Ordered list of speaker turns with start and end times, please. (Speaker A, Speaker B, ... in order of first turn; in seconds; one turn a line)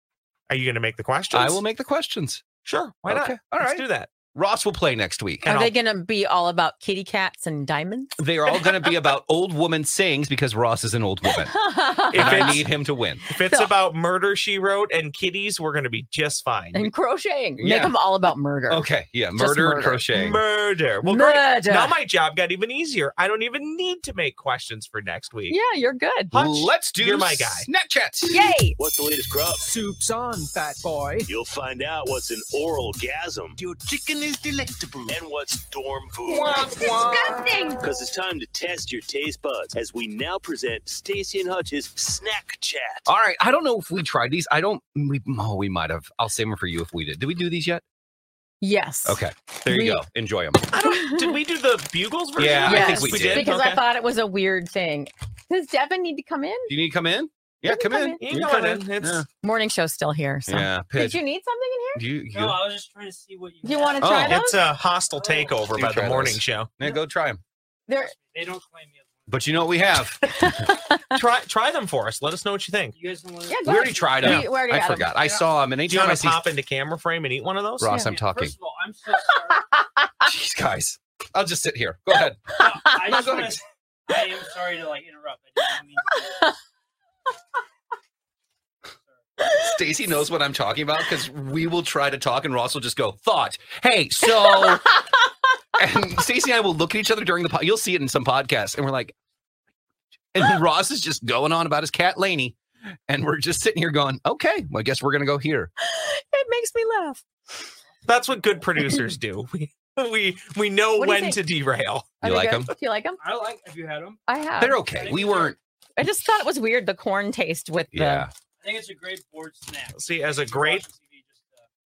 Speaker A: 0.5-1.6
Speaker B: 1.3-2.4
Speaker A: 2.6-4.1
Speaker B: 3.1-5.5
Speaker A: 5.4-5.7
Speaker C: 5.4-8.9
Speaker B: 8.2-13.2
Speaker C: 11.3-12.6
Speaker A: 12.1-12.7
Speaker A: 13.3-16.9
Speaker C: 13.3-13.7
Speaker C: 16.7-20.2
Speaker B: 17.6-17.9
Speaker B: 18.7-20.4
Speaker A: 20.1-25.6
Speaker C: 21.0-21.9
Speaker C: 25.5-26.3
Speaker A: 26.3-27.7
Speaker B: 26.3-28.4
Speaker C: 28.3-28.8
Speaker D: 28.8-29.7
Speaker E: 29.7-31.3
Speaker D: 31.2-33.6
Speaker E: 33.6-35.1
Speaker D: 35.1-36.6
Speaker E: 36.4-36.9
Speaker C: 36.9-37.8
Speaker D: 37.8-43.0
Speaker B: 43.0-47.8
Speaker C: 48.6-50.0
Speaker B: 49.0-50.7
Speaker A: 50.7-53.8
Speaker C: 50.8-51.3
Speaker B: 52.4-53.5
Speaker C: 52.6-56.7
Speaker B: 56.7-59.2
Speaker C: 57.6-58.2
Speaker A: 58.2-59.2
Speaker C: 59.4-62.0
Speaker B: 60.5-61.2
Speaker B: 62.0-62.6
Speaker F: 62.3-64.4
Speaker C: 63.6-64.6
Speaker B: 64.0-64.4
Speaker A: 64.3-66.7
Speaker F: 65.1-65.7
Speaker B: 65.7-67.4
Speaker C: 67.9-68.1
Speaker F: 68.0-69.7
Speaker B: 69.3-70.6
Speaker C: 70.2-71.1
Speaker A: 71.1-73.0
Speaker F: 72.9-74.5
Speaker C: 73.5-75.1
Speaker B: 73.6-76.4
Speaker A: 75.9-77.9
Speaker B: 77.8-78.5
Speaker F: 77.9-79.7
Speaker B: 80.2-83.6
Speaker F: 82.5-86.5
Speaker C: 82.6-83.3
Speaker B: 89.5-94.9
Speaker C: 94.3-95.1
Speaker B: 95.8-99.1
Speaker B: 100.3-102.6
Speaker B: 103.1-105.7
Speaker C: 105.8-107.2
Speaker A: 108.0-112.2
Speaker F: 108.3-108.5
Speaker C: 111.0-111.4
Speaker B: 112.2-112.7
Speaker C: 112.2-113.2
Speaker F: 113.2-114.2
Speaker C: 114.3-114.8
Speaker B: 114.6-115.5
Speaker F: 114.8-115.5
Speaker C: 116.0-118.3
Speaker B: 117.9-118.3
Speaker F: 118.6-121.7
Speaker A: 119.9-120.9